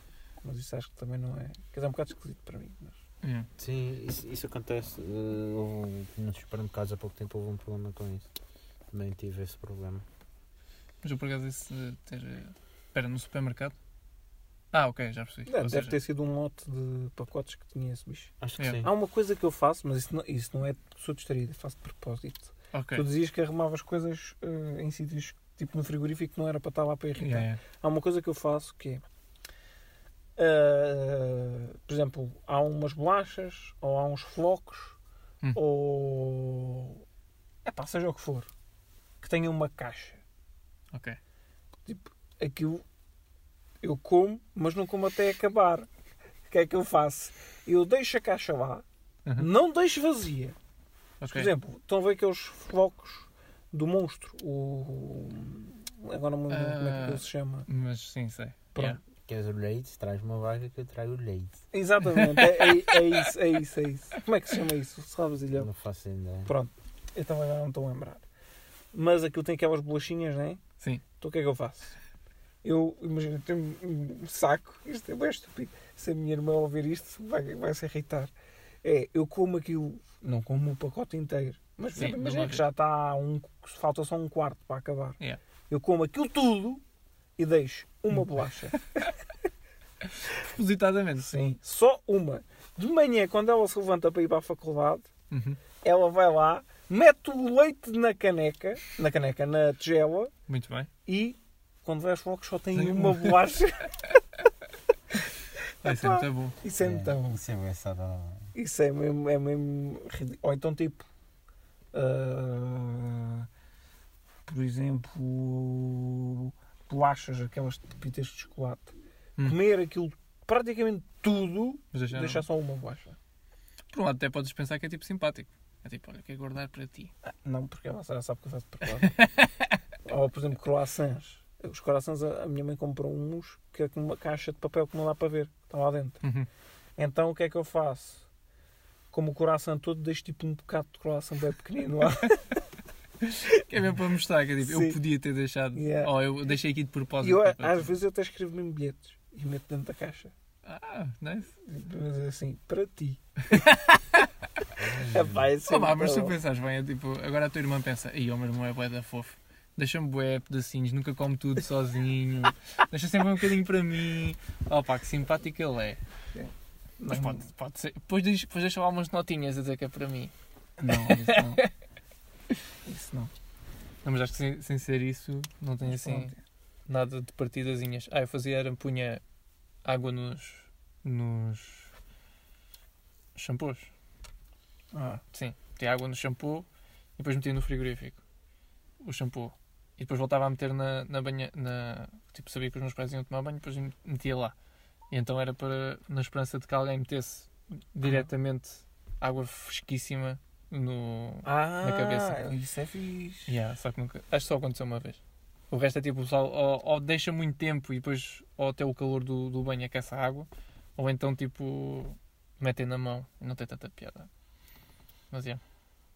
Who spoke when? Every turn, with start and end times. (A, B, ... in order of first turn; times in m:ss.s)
0:00.4-0:03.0 A
0:03.2-0:03.5 B
0:03.6-0:08.3 C
0:08.9-0:10.0 C
0:11.0-0:13.8 B
0:14.7-0:15.9 B
0:15.5-0:29.0 A
0:18.4-0:18.9 C
0:22.7-0:23.0 B
0:27.2-0:27.6 B
0:30.4-0:35.0 A
0:35.6-0:37.0 A
0:37.7-0:38.5 A
0:39.2-0:40.2 A
0:40.9-0:41.2 B
0:41.9-0:42.8 A
0:43.8-0:45.9 A
0:46.5-0:48.8 A
0:49.4-0:50.6 A
0:51.2-0:51.5 B
0:51.3-0:57.7 A
0:56.5-0:59.0 B
0:59.2-1:01.6 C
1:01.7-1:05.7 A
1:02.2-1:02.7 B
1:05.6-1:06.5 C
1:06.5-1:08.2 A
1:08.9-1:10.6 A
1:11.2-1:12.0 A
1:12.6-1:18.3 A
1:18.8-1:25.2 A
1:21.9-1:22.6 B
1:25.7-1:26.8 A
1:27.4-1:29.1 A
1:30.2-1:31.3 B
1:31.2-1:35.1 A
1:35.3-1:35.6 B
1:35.8-1:40.3 A
1:40.5-1:40.9 B
1:41.1-1:43.9 A
1:42.8-1:43.4 B
1:45.8-1:47.4 A
1:45.8-1:46.6 B
1:46.8-1:48.5 C
1:48.5-1:51.1 A
1:51.9-1:53.5 A
1:54.5-2:03.2 A
2:01.9-2:02.4 B
2:03.9-2:07.1 B
2:07.3-2:09.2 A
2:09.0-2:09.8 B
2:10.1-2:16.2 A
2:16.2-2:16.5 B
2:17.0-2:18.3 A
2:19.1-2:22.6 A
2:23.2-2:27.9 B
2:24.6-2:25.0 A
2:25.7-2:26.1 A
2:27.2-2:30.3 A
2:30.6-2:31.5 B
2:31.6-2:33.2 A
2:33.5-2:34.3 B
2:34.8-2:35.4 C
2:35.0-2:36.4 A
2:35.7-2:46.0 B
2:46.4-2:47.5 A
2:47.1-2:50.3 B
2:50.8-2:51.6 A
2:50.9-2:51.7 B
2:52.8-2:53.3 A
2:54.0-2:56.3 B
2:55.9-2:56.4 A
2:56.9-2:59.2 B
2:59.8-3:01.9 B
3:03.4-3:03.9 B
3:04.9-3:05.2 A
3:05.3-3:06.7 B
3:07.2-3:08.2 B
3:09.0-3:14.5 B
3:15.1-3:22.4 B
3:21.4-3:23.5 A
3:23.5-3:25.2 B
3:25.7-3:34.3 B
3:35.3-3:35.6 B